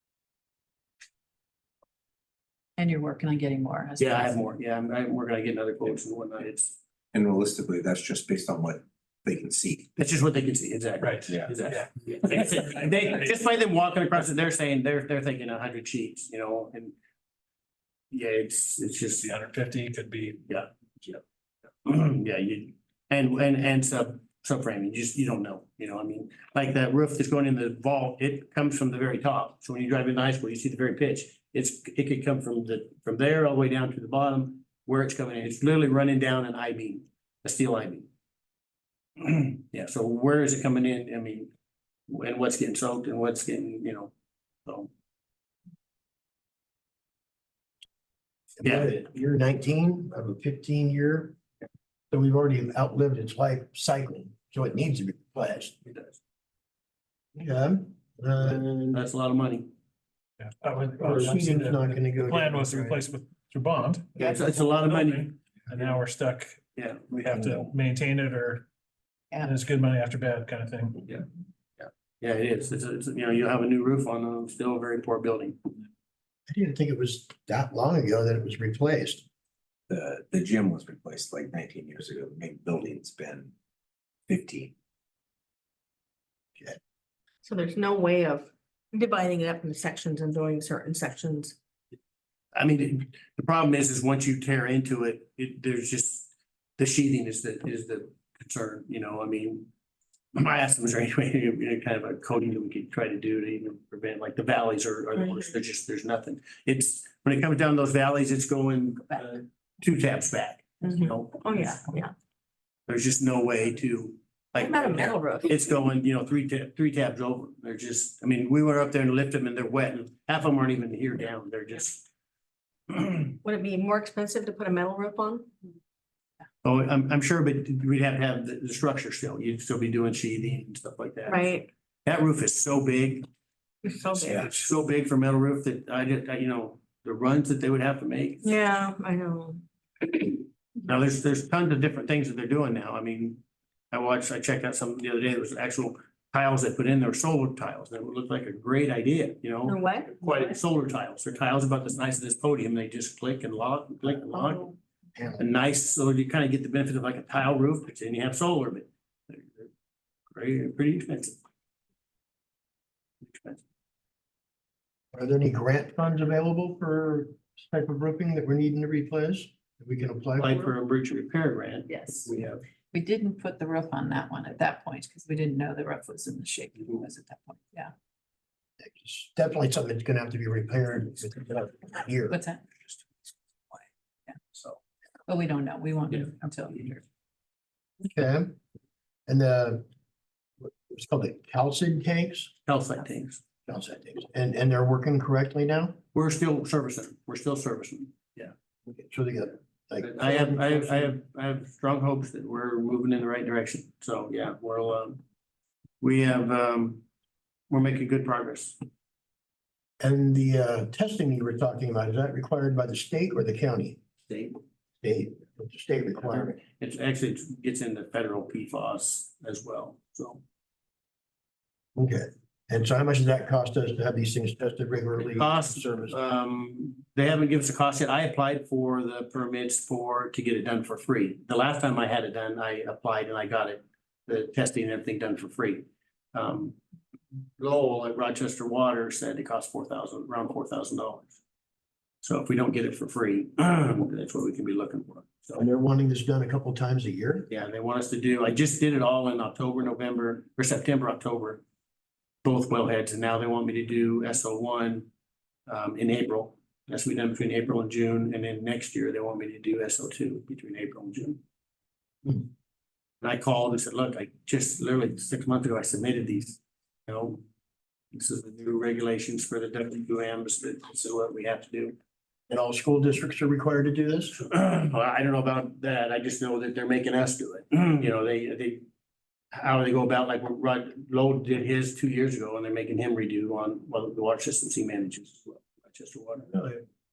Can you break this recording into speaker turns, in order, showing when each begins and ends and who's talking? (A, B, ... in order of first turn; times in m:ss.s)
0:02.8-0:04.4 A
0:04.0-0:06.8 B
0:07.1-0:09.9 C
0:10.0-0:16.9 B
0:11.0-0:13.3 D
0:11.3-0:11.5 C
0:18.1-0:19.3 B
0:19.2-0:20.4 D
0:20.5-0:21.2 B
0:21.8-0:38.1 B
0:39.2-0:41.5 B
0:42.1-0:44.1 B
0:48.6-0:51.4 E
0:48.6-0:48.9 B
0:52.1-0:55.8 E
0:55.8-0:56.2 B
0:57.3-0:59.0 E
0:58.9-0:59.7 B
1:00.4-1:08.7 D
1:01.0-1:03.0 E
1:04.2-1:05.3 B
1:06.8-1:07.3 B
1:09.4-1:11.0 D
1:11.8-1:15.7 B
1:16.5-1:19.2 E
1:19.9-1:23.5 C
1:24.3-1:24.7 C
1:27.4-1:31.5 F
1:32.5-1:39.7 B
1:40.3-1:51.7 B
1:50.8-1:52.1 F
1:52.9-2:02.0 B
1:54.6-1:55.6 F
2:02.9-2:03.3 B
2:03.4-2:05.5 F
2:06.6-2:13.2 B
2:11.2-2:11.7 F
2:13.8-2:14.5 F
2:14.2-2:18.5 B
2:18.4-2:19.6 F
2:20.8-2:34.7 B
2:29.6-2:30.2 F
2:35.2-2:35.4 E
2:35.4-2:39.7 B
2:40.3-2:41.4 B
2:43.2-2:43.6 B
2:45.1-2:50.6 E
2:50.4-2:52.6 B
2:51.9-2:52.1 F
2:52.9-2:57.9 A
2:58.8-3:02.4 E
3:02.3-3:02.6 A
3:02.8-3:03.8 C
3:05.3-3:07.0 A
3:08.0-3:08.6 E
3:09.3-3:09.8 E
3:10.6-3:12.5 E
3:12.6-3:13.4 B
3:13.7-3:16.0 E
3:16.1-3:18.5 B
3:18.9-3:21.1 E
3:20.0-3:25.2 B
3:26.0-3:27.0 B
3:27.7-3:28.8 B
3:30.0-3:34.0 E
3:34.3-3:34.6 B
3:35.0-3:36.6 E
3:36.2-3:40.4 B
3:41.9-3:46.2 E
3:45.2-3:56.8 B
3:57.6-4:01.4 B
4:02.2-4:05.6 B
4:05.6-4:07.5 E
4:07.5-4:11.6 B
4:12.4-4:15.1 B
4:15.7-4:21.4 B
4:23.2-4:27.4 B
4:28.1-4:32.0 B
4:32.5-4:34.4 E
4:34.4-4:38.8 B
4:39.5-4:46.5 B
4:46.5-4:46.8 E